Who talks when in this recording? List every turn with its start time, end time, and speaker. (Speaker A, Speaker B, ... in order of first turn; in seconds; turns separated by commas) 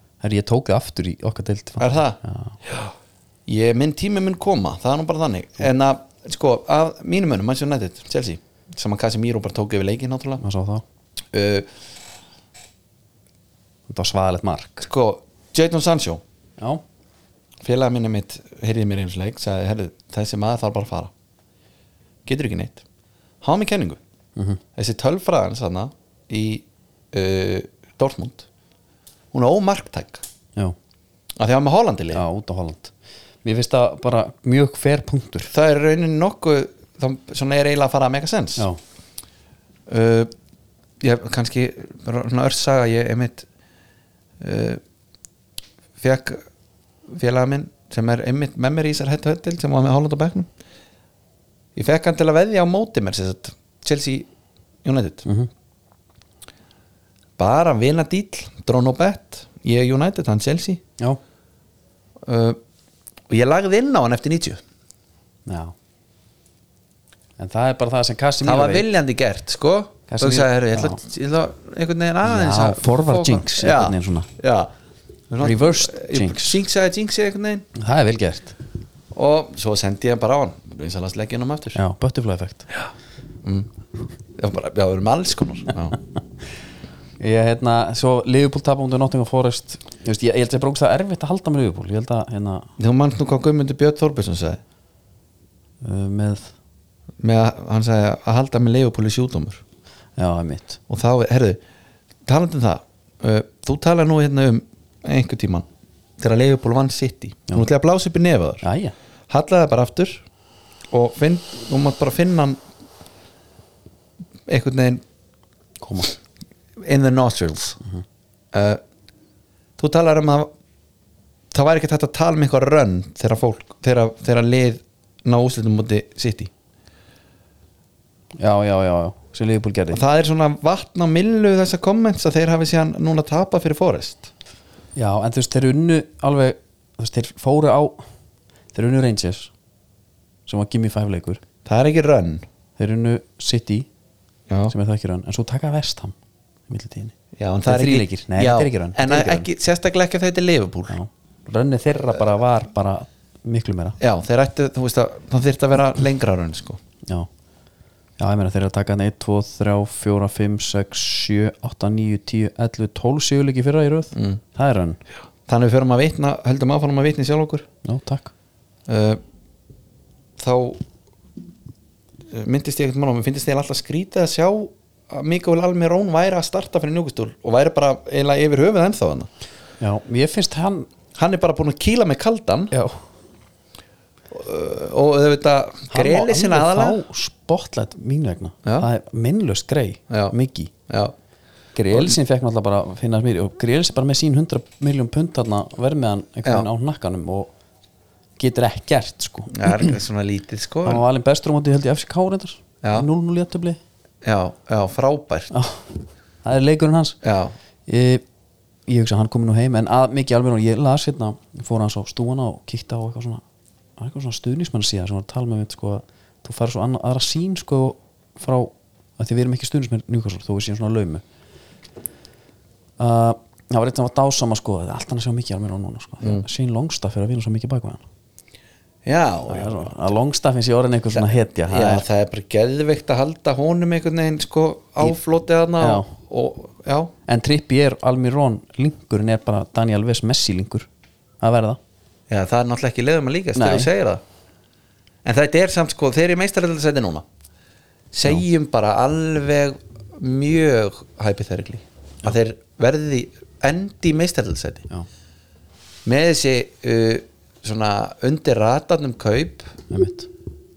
Speaker A: 0.2-2.6, Speaker B: 1.8-2.9, Speaker B: 3.5-10.4, Speaker A: 10.4-10.8, Speaker B: 11.3-11.7, Speaker A: 13.9-14.9, Speaker B: 14.8-16.2, Speaker B: 17.6-21.1, Speaker B: 22.2-22.8, Speaker B: 23.4-24.0, Speaker B: 24.7-28.5, Speaker B: 29.3-30.2, Speaker B: 31.4-32.2, Speaker A: 32.1-32.9, Speaker A: 33.4-35.5, Speaker B: 35.5-38.7, Speaker B: 39.9-40.3, Speaker B: 41.0-43.5, Speaker B: 44.4-44.8, Speaker B: 46.0-46.4, Speaker B: 47.1-50.5, Speaker B: 51.7-54.3, Speaker B: 54.8-55.2, Speaker B: 57.4-60.8, Speaker B: 62.2-62.6, Speaker B: 63.3-64.6, Speaker A: 65.5-65.7, Speaker A: 67.4-68.9, Speaker B: 68.4-74.7, Speaker A: 70.1-71.0, Speaker A: 72.2-74.3, Speaker B: 75.3-77.7, Speaker A: 75.4-76.6, Speaker A: 77.7-78.5, Speaker B: 79.1-81.8, Speaker A: 81.7-82.7, Speaker B: 83.4-83.7, Speaker B: 84.3-86.0, Speaker A: 87.2-92.7, Speaker B: 92.8-94.6, Speaker A: 95.8-96.5, Speaker B: 97.2-99.6, Speaker A: 100.2-100.8, Speaker B: 100.9-101.6, Speaker B: 102.2-105.7, Speaker B: 106.2-108.6, Speaker A: 108.6-108.9, Speaker B: 109.3-110.2, Speaker B: 110.9-112.6, Speaker B: 114.5-115.0, Speaker A: 115.8-116.1, Speaker B: 116.8-117.8, Speaker B: 118.5-118.8, Speaker B: 119.8-120.5, Speaker B: 121.5-126.5, Speaker A: 128.4-130.0, Speaker B: 129.9-134.3, Speaker A: 134.9-138.0, Speaker A: 138.7-139.5, Speaker A: 140.5-141.4, Speaker B: 141.6-142.4, Speaker A: 142.8-143.9, Speaker A: 144.7-146.1, Speaker A: 146.7-147.1, Speaker B: 147.3-150.9, Speaker A: 147.7-149.5, Speaker A: 150.9-154.0, Speaker B: 154.0-156.8, Speaker A: 158.2-165.0, Speaker B: 165.5-167.7, Speaker A: 167.8-168.3, Speaker B: 168.9-169.2, Speaker B: 170.4-170.8, Speaker B: 172.3-179.3, Speaker A: 179.8-180.9, Speaker B: 181.1-182.7, Speaker A: 182.7-183.0, Speaker B: 184.3-187.0, Speaker A: 185.9-190.7, Speaker B: 190.9-191.1, Speaker A: 191.7-197.5, Speaker A: 198.4-200.0, Speaker B: 199.5-201.0, Speaker A: 200.8-203.8, Speaker B: 202.8-203.1, Speaker B: 204.2-205.5, Speaker A: 205.5-205.9, Speaker A: 206.4-207.2, Speaker B: 207.2-207.5, Speaker A: 207.9-208.2, Speaker A: 208.9-213.4, Speaker A: 214.0-221.2, Speaker A: 223.0-228.0, Speaker B: 229.0-229.9, Speaker A: 229.5-232.1, Speaker B: 231.1-237.1, Speaker A: 235.8-236.1, Speaker A: 237.3-240.9, Speaker A: 241.4-241.8, Speaker B: 242.3-244.2, Speaker A: 243.5-243.9, Speaker B: 245.2-247.2, Speaker B: 248.1-254.8, Speaker B: 256.0-259.7, Speaker A: 259.9-260.3